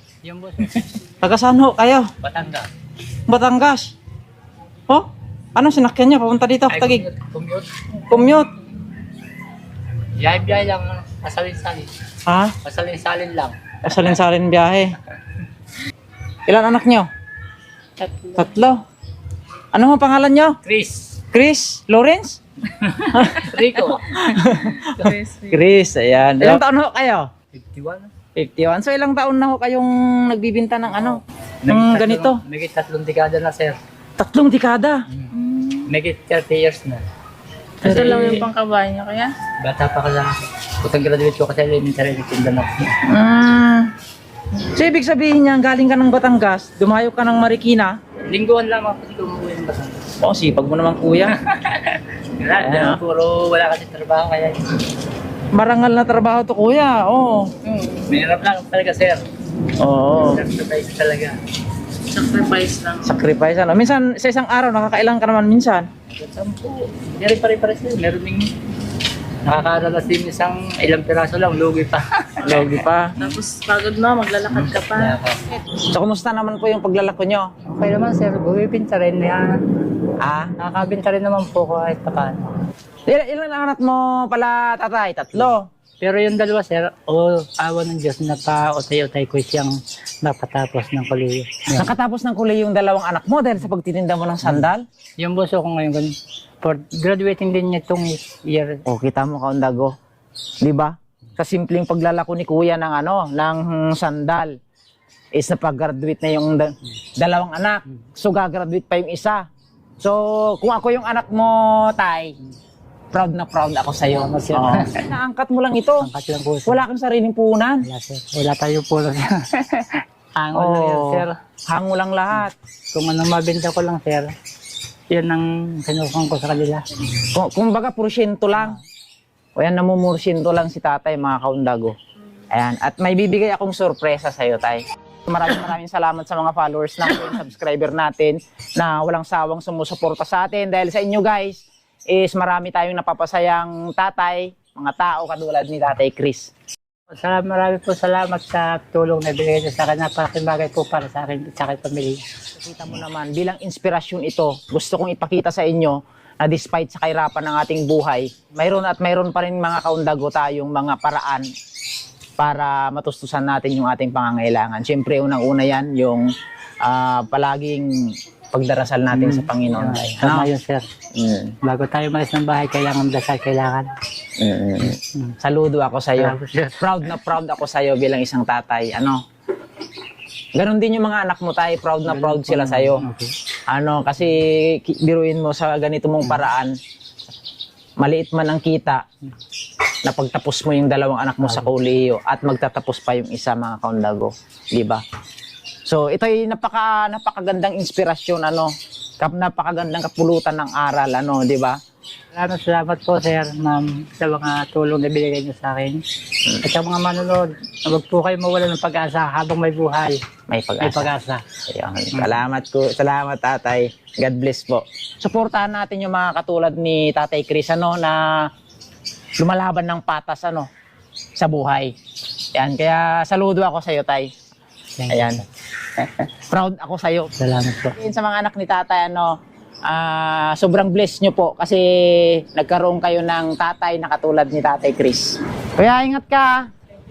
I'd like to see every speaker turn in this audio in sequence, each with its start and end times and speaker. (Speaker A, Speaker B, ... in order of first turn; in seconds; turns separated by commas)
Speaker A: 0.2-1.0, Speaker B: 1.1-2.1, Speaker A: 2.2-2.7, Speaker B: 3.3-3.9, Speaker B: 4.9-7.1, Speaker A: 6.7-8.2, Speaker B: 8.1-8.5, Speaker A: 10.1-11.9, Speaker B: 12.2-12.6, Speaker A: 12.6-13.6, Speaker B: 13.8-15.0, Speaker B: 16.5-17.1, Speaker C: 18.0-18.3, Speaker B: 18.3-18.8, Speaker B: 19.7-20.6, Speaker A: 20.6-21.2, Speaker B: 21.3-22.4, Speaker A: 22.7-25.1, Speaker B: 23.0-27.3, Speaker C: 25.0-25.6, Speaker A: 27.5-28.1, Speaker B: 28.4-32.4, Speaker A: 30.9-33.8, Speaker B: 34.2-35.0, Speaker C: 35.3-35.9, Speaker A: 35.8-37.0, Speaker A: 37.8-38.5, Speaker C: 37.8-39.3, Speaker A: 39.6-43.0, Speaker B: 43.0-43.9, Speaker B: 44.6-47.9, Speaker A: 48.3-50.1, Speaker B: 50.2-51.4, Speaker A: 51.4-54.8, Speaker B: 52.6-53.0, Speaker B: 55.5-57.5, Speaker C: 57.7-58.0, Speaker A: 58.0-59.2, Speaker B: 59.8-60.4, Speaker A: 60.1-61.4, Speaker C: 62.1-63.0, Speaker B: 63.0-65.9, Speaker A: 66.1-68.5, Speaker A: 69.4-72.7, Speaker B: 72.4-73.2, Speaker C: 73.2-75.2, Speaker A: 74.5-75.6, Speaker B: 75.9-77.5, Speaker A: 77.7-79.6, Speaker B: 80.2-80.5, Speaker A: 80.6-82.5, Speaker B: 83.1-85.7, Speaker A: 86.0-91.9, Speaker B: 91.7-94.8, Speaker A: 94.4-98.8, Speaker B: 98.8-99.9, Speaker B: 100.6-104.5, Speaker B: 105.3-109.4, Speaker B: 110.0-112.3, Speaker B: 113.1-116.1, Speaker A: 114.1-115.1, Speaker A: 116.0-116.8, Speaker B: 116.7-117.9, Speaker A: 117.8-121.3, Speaker B: 120.5-122.5, Speaker A: 122.9-124.3, Speaker A: 125.1-126.8, Speaker B: 127.2-128.8, Speaker B: 129.6-131.9, Speaker B: 132.5-146.5, Speaker A: 147.1-152.2, Speaker B: 152.6-161.4, Speaker B: 162.4-166.2, Speaker B: 166.8-167.8, Speaker B: 168.5-170.5, Speaker A: 169.1-170.9, Speaker B: 171.1-171.6, Speaker A: 171.6-173.9, Speaker B: 174.4-179.2, Speaker A: 175.0-175.3, Speaker A: 176.2-177.2, Speaker B: 180.6-183.0, Speaker A: 182.1-183.3, Speaker B: 183.7-186.7, Speaker B: 188.0-189.0, Speaker B: 190.0-195.0, Speaker A: 191.4-191.7, Speaker B: 195.8-201.8, Speaker A: 202.3-206.0, Speaker A: 206.5-210.2, Speaker B: 210.5-211.1, Speaker A: 210.8-211.4, Speaker B: 211.7-218.4, Speaker A: 212.1-212.4, Speaker B: 219.4-220.7, Speaker B: 221.3-221.9, Speaker B: 222.5-224.3, Speaker A: 225.0-225.4, Speaker B: 225.1-225.4, Speaker B: 226.0-227.3, Speaker A: 227.4-228.0, Speaker B: 227.9-229.3, Speaker B: 229.9-236.6